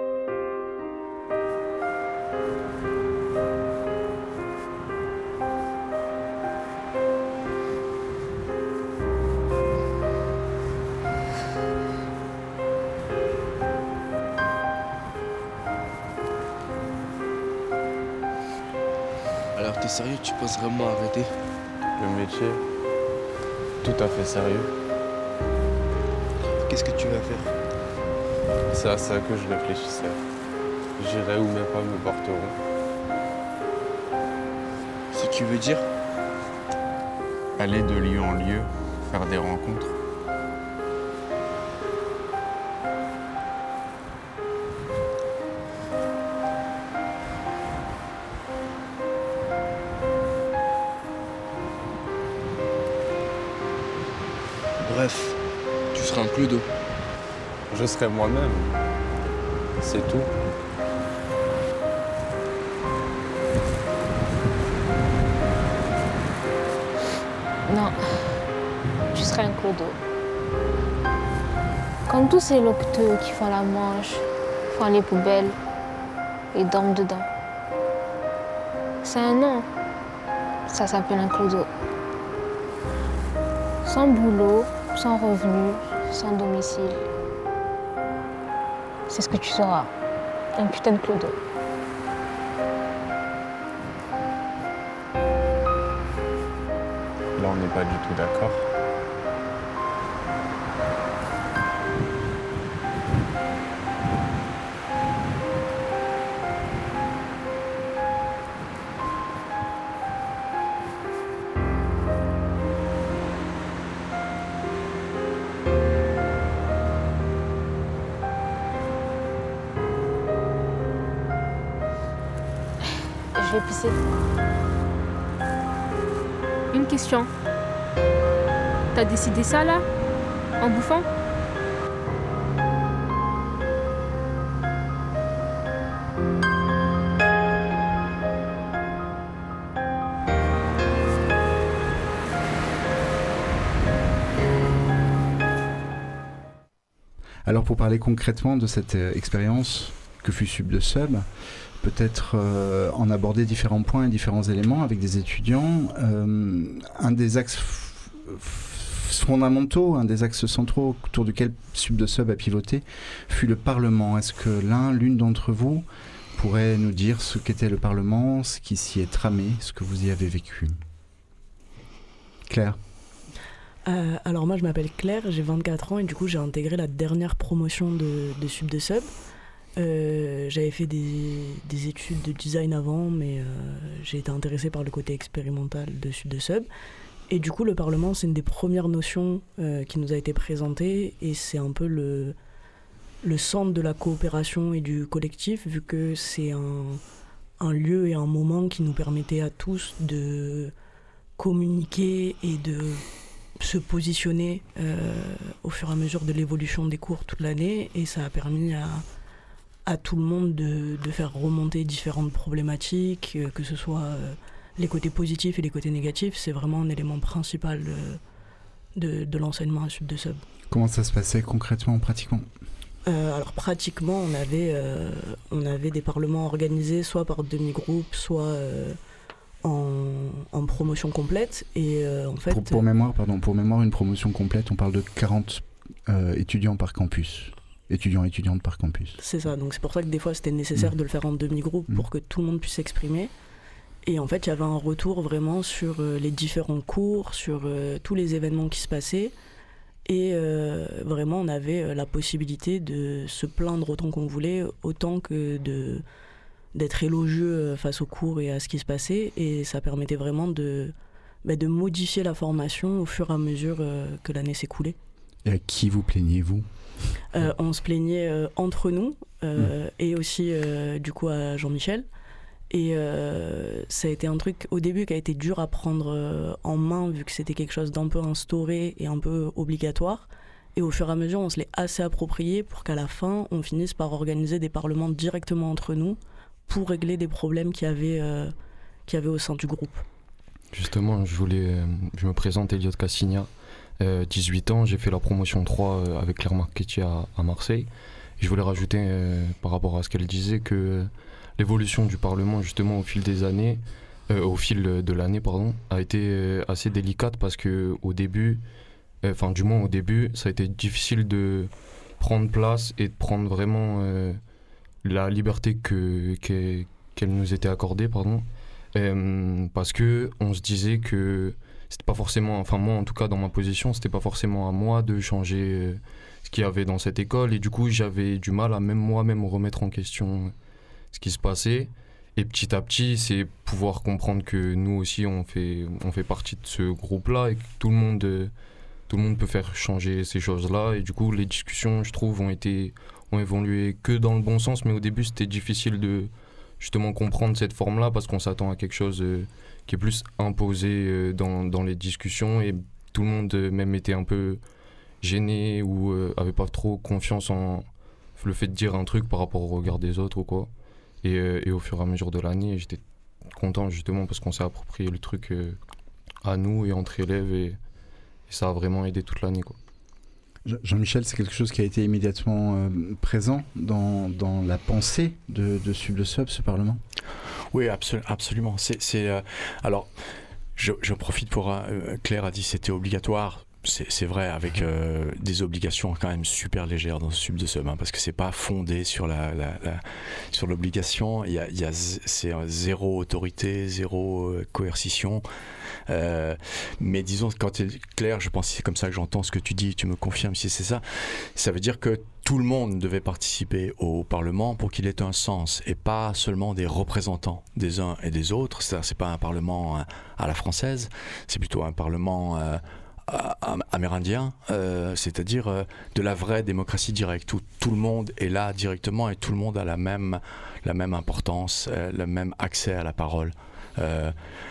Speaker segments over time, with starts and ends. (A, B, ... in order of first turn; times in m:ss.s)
0:19.5-0:21.3 A
0:22.0-0:22.6 B
0:23.8-0:24.7 B
0:26.6-0:27.5 A
0:28.7-0:30.2 B
0:31.0-0:32.6 B
0:35.1-0:35.8 A
0:37.6-0:39.9 B
0:54.8-0:55.4 A
0:55.9-0:56.6 A
0:57.7-0:58.7 B
0:59.8-1:00.3 B
1:07.7-1:08.4 C
1:09.1-1:10.0 C
1:12.1-1:15.6 C
1:16.5-1:17.3 C
1:19.0-1:19.7 C
1:20.7-1:21.7 C
1:23.8-1:27.0 C
1:29.1-1:29.9 C
1:30.6-1:31.4 C
1:37.4-1:38.6 B
2:03.3-2:04.0 C
2:06.7-2:07.3 C
2:08.9-2:09.8 C
2:10.6-2:11.1 C
2:27.4-2:31.3 D
2:31.8-2:50.8 D
2:52.5-2:52.8 D
2:53.8-2:59.1 E
2:59.8-3:06.7 E
3:07.3-3:12.4 E
3:13.2-3:17.0 E
3:17.6-3:20.7 E
3:21.4-3:23.0 E
3:23.6-3:29.0 E
3:29.8-3:38.2 E
3:39.0-3:40.4 E
3:40.7-3:42.5 D
3:43.0-3:49.0 E
3:49.6-3:52.8 E
3:52.5-3:59.2 D
3:59.2-4:03.3 E
4:04.0-4:09.3 E
4:10.0-4:16.0 E
4:16.7-4:25.0 E
4:25.4-4:26.6 D
4:27.3-4:32.0 E
4:32.7-4:48.5 E
4:49.1-4:50.0 E
4:50.7-5:08.6 F
5:09.2-5:14.4 F
5:15.0-5:30.5 F
5:31.1-5:38.5 F
5:39.1-5:54.6 F
5:55.2-6:00.7 F
6:01.2-6:05.8 F
6:06.4-6:07.8 F
6:08.5-6:09.8 F
6:10.6-6:17.0 D
6:17.7-6:20.1 G
6:20.8-6:35.4 G
6:36.1-7:04.3 G